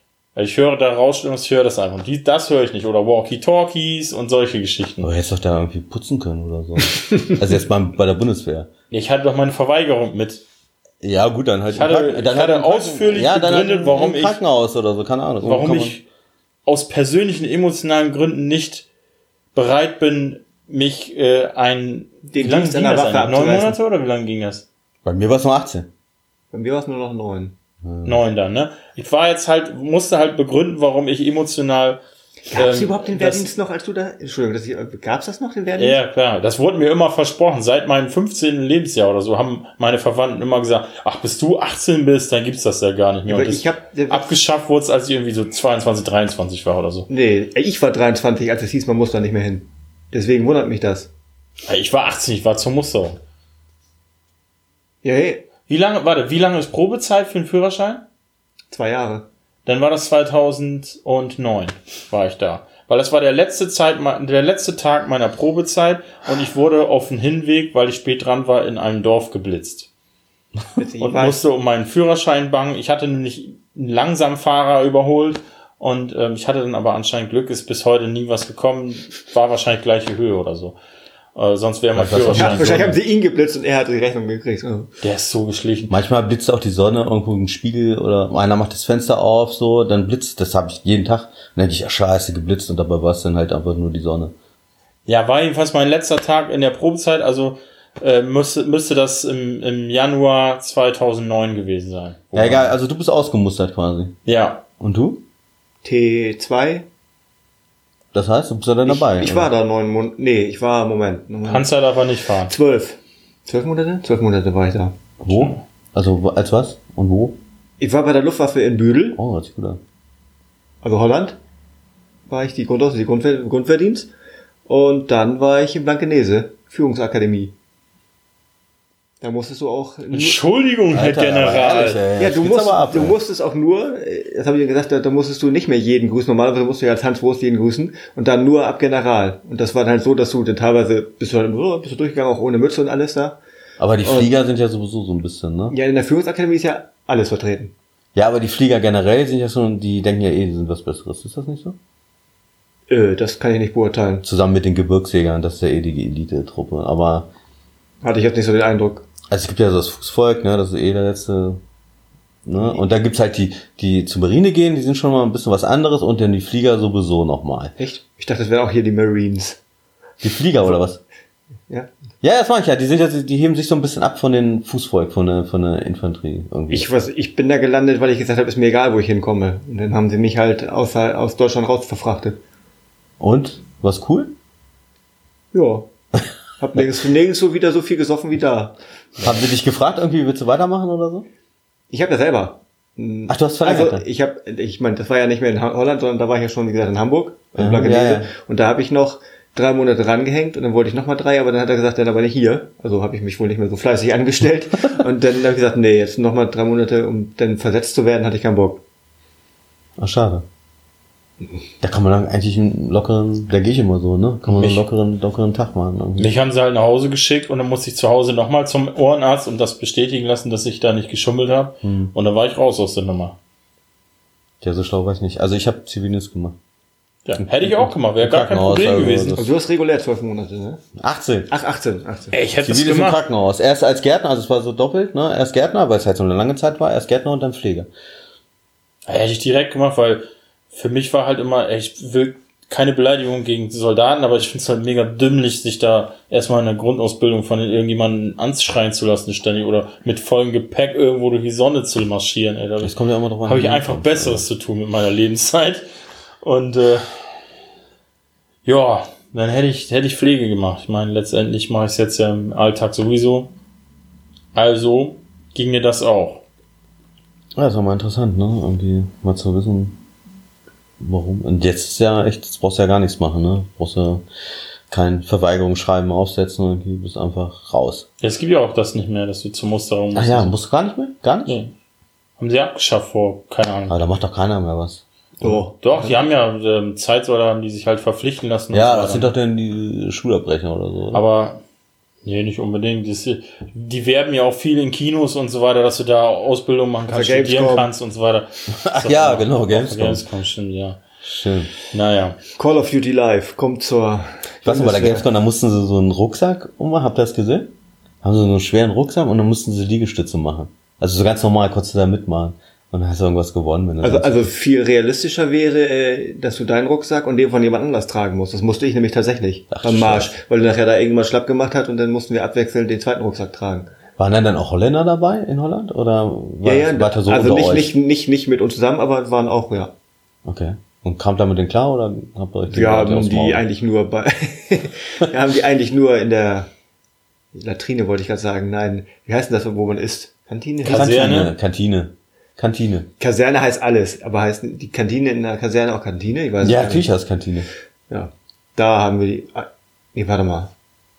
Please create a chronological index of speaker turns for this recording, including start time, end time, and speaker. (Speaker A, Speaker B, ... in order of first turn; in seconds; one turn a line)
Speaker A: 0.3-5.1
Speaker B: 5.0-8.7
Speaker A: 8.9-10.4
Speaker B: 11.0-16.0
Speaker A: 11.7-14.4
Speaker A: 15.4-16.0
Speaker A: 16.6-18.8
Speaker A: 19.5-24.6
Speaker C: 22.3-23.8
Speaker B: 25.0-25.9
Speaker C: 26.5-27.5
Speaker B: 27.8-28.2
Speaker A: 28.0-32.0
Speaker C: 32.5-36.0
Speaker A: 32.5-33.5
Speaker A: 35.8-47.1
Speaker C: 43.3-44.3
Speaker C: 47.1-51.1
Speaker A: 51.7-53.2
Speaker C: 55.0-55.4
Speaker A: 55.7-58.0
Speaker C: 58.7-59.3
Speaker A: 59.6-69.9
Speaker C: 70.8-71.4
Speaker A: 71.0-80.8
Speaker A: 81.3-83.0
Speaker B: 81.9-82.9
Speaker C: 82.3-84.9
Speaker A: 85.0-85.9
Speaker B: 85.9-94.3
Speaker A: 95.0-102.7
Speaker B: 102.3-104.2
Speaker A: 104.2-104.6
Speaker B: 104.8-105.2
Speaker C: 105.8-106.8
Speaker B: 108.1-109.5
Speaker C: 108.8-111.7
Speaker A: 111.5-112.5
Speaker C: 112.5-115.0
Speaker B: 115.2-117.4
Speaker A: 115.3-115.6
Speaker C: 117.8-119.2
Speaker B: 119.1-119.8
Speaker C: 120.8-121.4
Speaker C: 122.3-124.1
Speaker C: 124.7-127.5
Speaker C: 129.2-130.4
Speaker A: 130.1-132.0
Speaker B: 130.9-133.1
Speaker C: 132.2-143.4
Speaker B: 143.8-145.8
Speaker C: 144.0-144.3
Speaker C: 145.7-147.7
Speaker B: 148.1-151.8
Speaker C: 152.9-154.2
Speaker B: 154.2-157.3
Speaker C: 158.0-159.1
Speaker B: 159.3-161.6
Speaker B: 162.4-167.7
Speaker C: 167.8-169.6
Speaker B: 170.2-171.0
Speaker B: 172.2-177.0
Speaker C: 176.7-182.4
Speaker B: 183.2-184.3
Speaker C: 185.5-185.9
Speaker C: 186.6-189.3
Speaker B: 189.2-191.2
Speaker C: 191.9-208.8
Speaker B: 193.3-194.0
Speaker B: 197.6-198.3
Speaker B: 210.0-210.4
Speaker B: 211.8-216.3
Speaker A: 214.5-214.8
Speaker A: 216.2-223.4
Speaker B: 221.8-222.1
Speaker B: 224.6-226.6
Speaker A: 227.2-229.4
Speaker B: 227.4-229.4
Speaker C: 229.4-230.8
Speaker B: 230.9-231.5
Speaker C: 231.5-232.3
Speaker A: 232.3-233.2
Speaker B: 232.6-237.9
Speaker A: 239.1-255.9
Speaker B: 252.8-254.4
Speaker A: 256.4-257.2
Speaker A: 258.6-263.5
Speaker A: 264.5-266.4
Speaker B: 267.6-270.0
Speaker B: 271.0-274.2
Speaker B: 274.9-278.1
Speaker A: 278.2-280.5
Speaker B: 280.1-281.6
Speaker A: 281.4-281.7
Speaker A: 282.4-284.0
Speaker B: 283.9-285.0
Speaker A: 285.4-289.3
Speaker C: 285.4-286.2
Speaker B: 288.7-291.2
Speaker A: 291.1-291.6
Speaker A: 292.2-301.0
Speaker C: 297.1-297.9
Speaker B: 298.7-300.2
Speaker B: 301.2-301.7
Speaker A: 301.9-302.4
Speaker C: 302.6-305.3
Speaker B: 304.6-307.7
Speaker B: 308.2-314.5
Speaker C: 314.0-323.9
Speaker B: 319.7-320.3
Speaker B: 324.2-327.9
Speaker C: 326.6-329.9
Speaker B: 330.4-333.6
Speaker C: 332.7-336.7
Speaker C: 337.5-341.2
Speaker A: 340.8-341.5
Speaker B: 340.9-343.1
Speaker C: 343.2-347.1
Speaker B: 346.6-347.7
Speaker C: 348.1-350.7